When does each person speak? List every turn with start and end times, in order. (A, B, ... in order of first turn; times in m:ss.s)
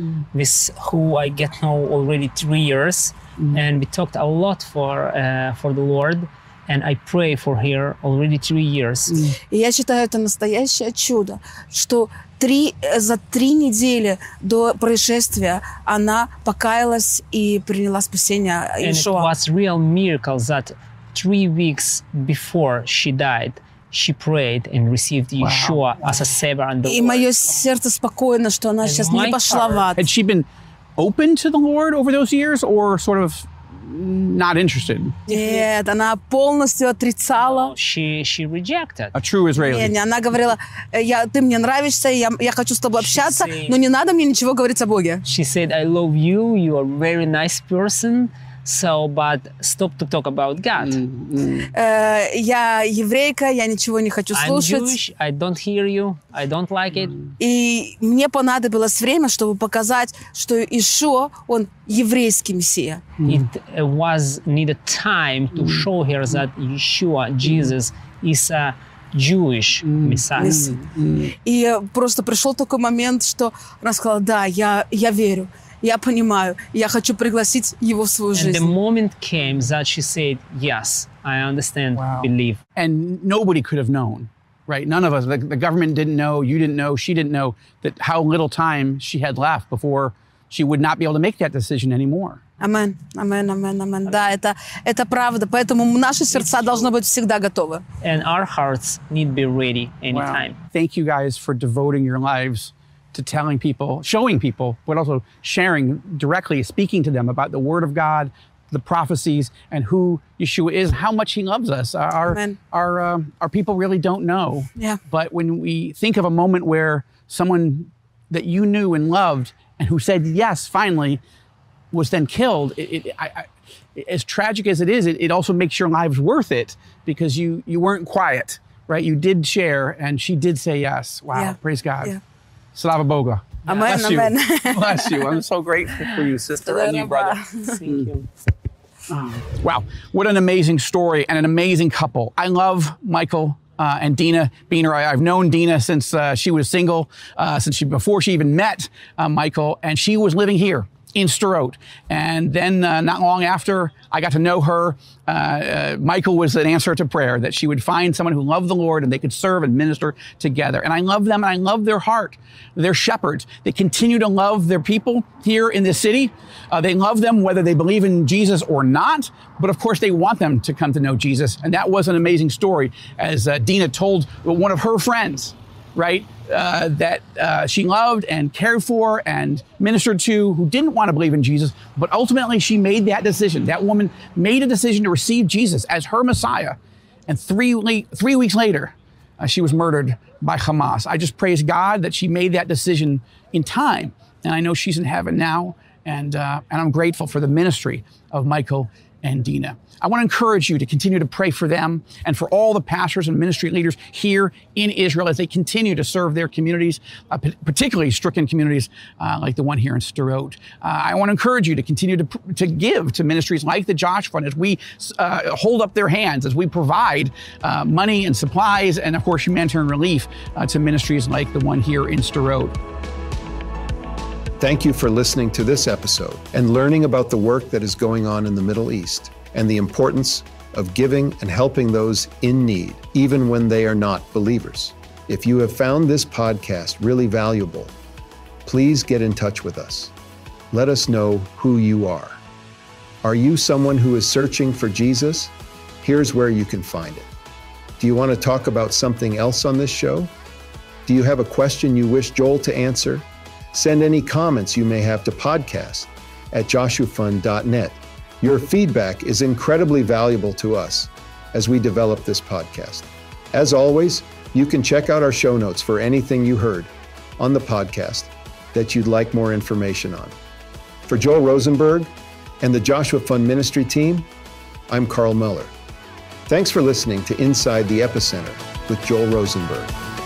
0:00.3-0:09.3 A
0:09.5-0:19.3 B
0:18.8-0:27.3 A
0:25.4-0:25.8 C
0:26.8-0:30.0 B
0:28.8-0:29.9 A
0:30.0-0:35.2 C
0:35.3-0:35.7 A
0:35.3-0:37.7 B
0:37.4-0:39.1 A
0:39.1-0:39.9 C
0:39.6-0:45.2 B
0:43.0-0:43.8 A
0:45.2-0:51.0 A
0:50.8-0:51.7 C
0:51.7-0:55.0 B
0:54.3-0:57.2 A
0:57.4-1:03.1 B
1:03.2-1:03.4 C
1:03.2-1:10.8 A
1:09.9-1:11.3 C
1:10.4-1:10.8 B
1:11.3-1:18.7 B
1:18.3-1:22.6 A
1:22.0-1:32.4 C
1:32.6-1:37.8 B
1:38.0-1:40.6 A
1:40.1-2:01.2 C
1:52.3-1:52.6 B
2:01.9-2:12.2 C
2:11.3-2:12.2 B
2:12.8-2:18.1 C
2:13.7-2:15.4 B
2:16.6-2:17.8 B
2:17.6-2:18.3 A
2:19.1-3:42.8 C
3:44.6-3:57.9 D
3:58.7-4:00.1 D
4:00.7-4:02.4 D
4:03.2-4:07.3 D
4:08.0-4:10.3 D
4:11.1-4:30.4 D
4:31.1-4:32.1 D
4:32.6-4:34.3 D
4:34.9-4:35.7 D
4:36.5-4:39.9 D